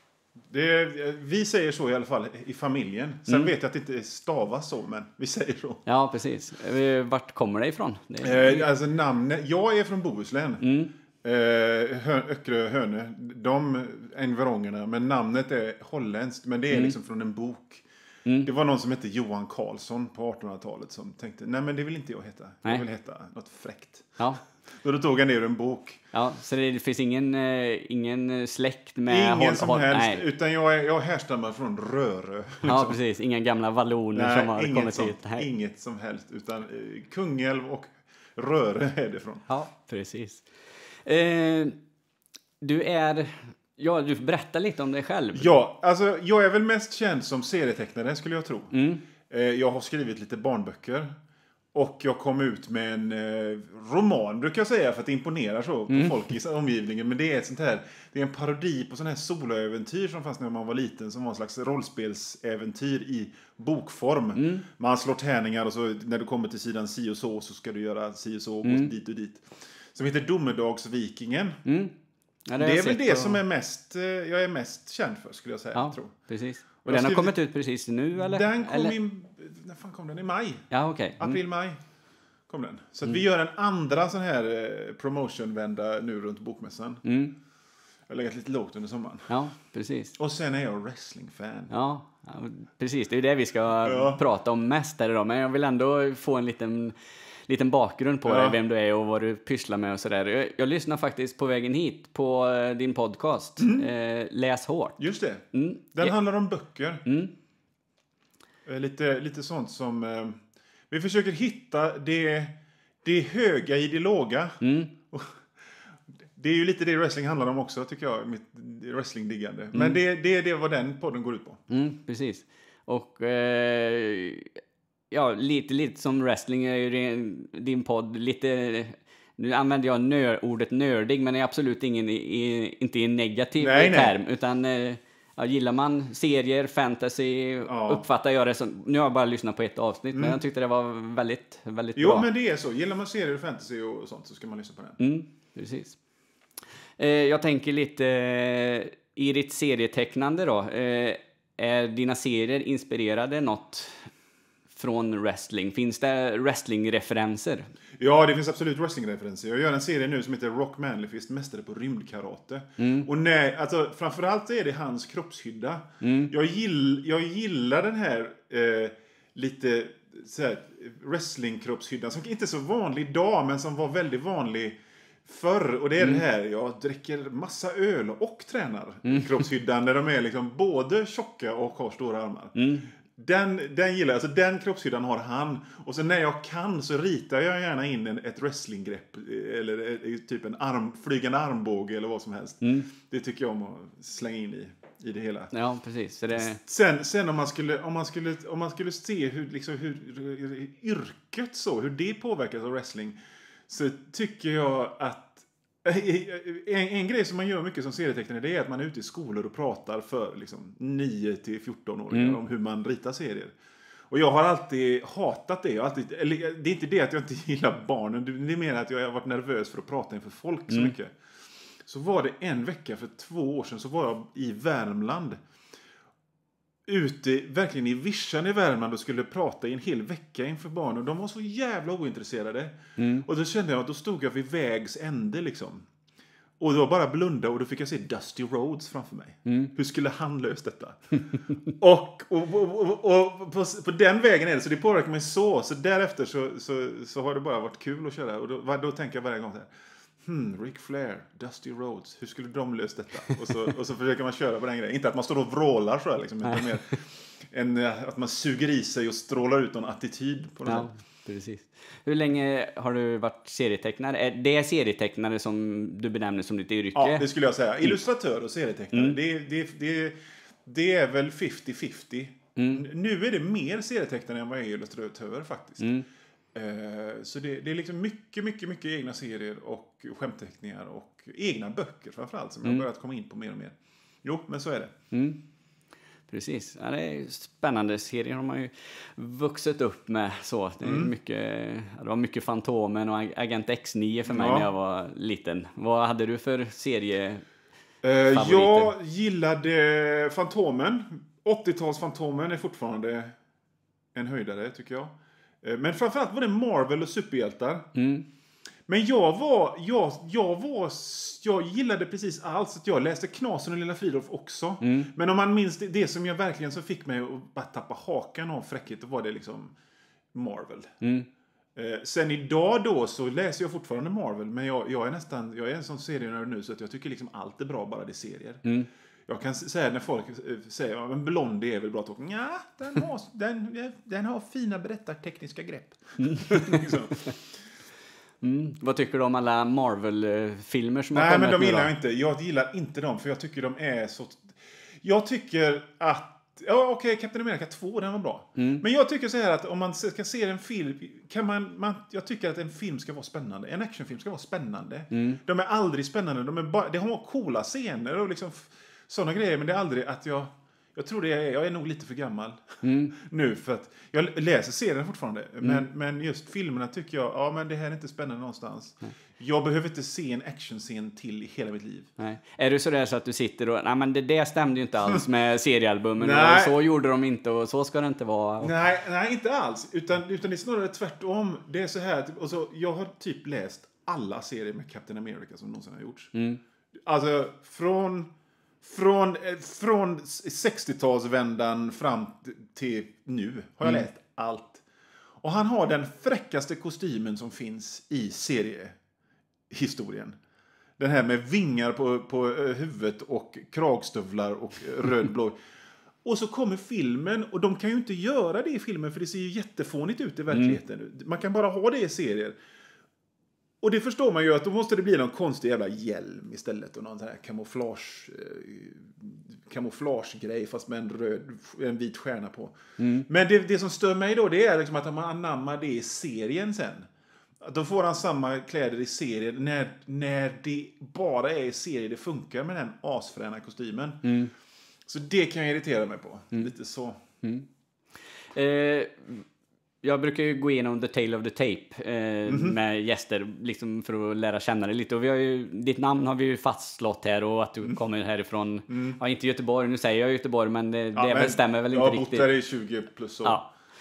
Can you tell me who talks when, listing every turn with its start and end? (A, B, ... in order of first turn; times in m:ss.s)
0:00.5-0:05.8 A
0:05.8-0:08.7 B
0:08.2-0:10.6 A
0:10.6-0:10.9 B
0:11.2-0:17.8 A
0:18.4-0:24.2 A
0:24.7-0:26.0 A
0:26.1-0:30.2 B
0:29.1-0:33.0 A
0:32.6-0:35.5 B
0:34.1-0:39.4 A
0:39.5-0:40.5 B
0:41.0-0:41.8 B
0:42.6-0:45.5 B
0:45.3-0:48.7 A
0:48.7-0:49.0 B
0:49.3-0:51.1 A
0:51.7-1:11.6 A
0:55.9-0:56.2 B
1:04.3-1:04.6 B
1:08.6-1:08.9 B
1:11.6-1:11.9 B
1:12.4-1:13.4 B
1:12.6-1:16.1 A
1:15.7-1:19.0 B
1:16.8-1:17.4 A
1:18.2-1:21.8 A
1:20.7-1:21.4 B
1:22.5-1:27.0 A
1:27.0-1:27.3 B
1:28.1-1:29.4 A
1:29.3-1:30.1 B
1:30.2-1:31.7 A
1:31.7-1:45.0 B
1:33.8-1:34.2 A
1:38.2-1:38.6 A
1:43.6-1:43.9 A
1:45.0-1:47.0 A
1:45.5-1:46.2 B
1:47.0-1:47.3 B
1:48.6-1:55.5 A
1:54.6-1:54.9 B
1:56.3-2:01.6 A
1:59.7-2:00.0 B
2:01.7-2:04.6 B
2:05.1-2:22.3 B
2:13.6-2:14.2 A
2:17.6-2:18.0 A
2:20.1-2:20.4 A
2:22.0-2:25.0 A
2:25.0-2:26.0 B
2:27.0-2:34.1 B
2:34.7-2:37.7 B
2:38.0-3:15.5 A
2:42.8-2:43.1 B
2:46.0-2:46.3 B
2:59.1-2:59.3 B
3:02.6-3:02.9 B
3:12.6-3:12.9 B
3:15.5-3:16.6 B
3:16.3-3:23.2 A
3:23.7-3:33.5 A
3:32.1-3:32.4 B
3:34.1-3:41.1 A
3:40.7-3:40.9 B
3:41.8-3:45.4 A
3:46.8-3:55.9 A
3:53.0-3:53.2 B
3:56.6-4:20.9 A
3:59.5-3:59.7 B
4:20.6-4:27.2 B
4:26.9-4:35.9 A
4:32.6-4:32.8 B
4:35.8-4:36.0 B
4:36.5-4:44.9 A
4:45.1-4:45.4 B
4:46.3-4:57.4 B
4:50.8-4:51.1 A
4:54.3-4:54.7 A
4:58.0-5:03.3 A
4:58.2-4:58.9 B
5:04.1-5:07.8 A
5:07.9-5:08.2 B
5:08.9-5:19.7 A
5:14.8-5:15.1 B
5:20.3-5:20.9 A
5:21.0-5:21.3 B
5:21.8-5:28.6 A
5:29.3-5:37.3 A
5:36.2-5:37.3 B
5:38.4-5:41.9 B
5:41.1-6:12.1 A
5:48.6-5:48.8 B
5:55.1-5:55.4 B
6:02.8-6:03.2 B
6:12.2-6:18.7 B
6:16.2-6:16.8 A
6:18.6-6:26.3 A
6:26.3-6:26.6 B
6:27.0-6:28.3 A
6:28.8-6:34.8 A
6:35.4-6:39.0 A
6:39.7-6:40.4 A
6:41.0-6:45.6 A
6:46.2-6:52.6 A
6:50.5-6:50.8 B
6:53.8-7:07.1 A
7:03.0-7:03.3 B
7:07.6-7:14.3 A
7:14.2-7:14.5 B
7:15.1-7:17.2 A
7:17.4-7:17.7 B
7:18.5-7:19.4 B
7:20.0-7:32.5 B
7:22.4-7:22.8 A
7:28.9-7:29.2 A
7:31.1-7:33.6 A
7:33.4-7:33.7 B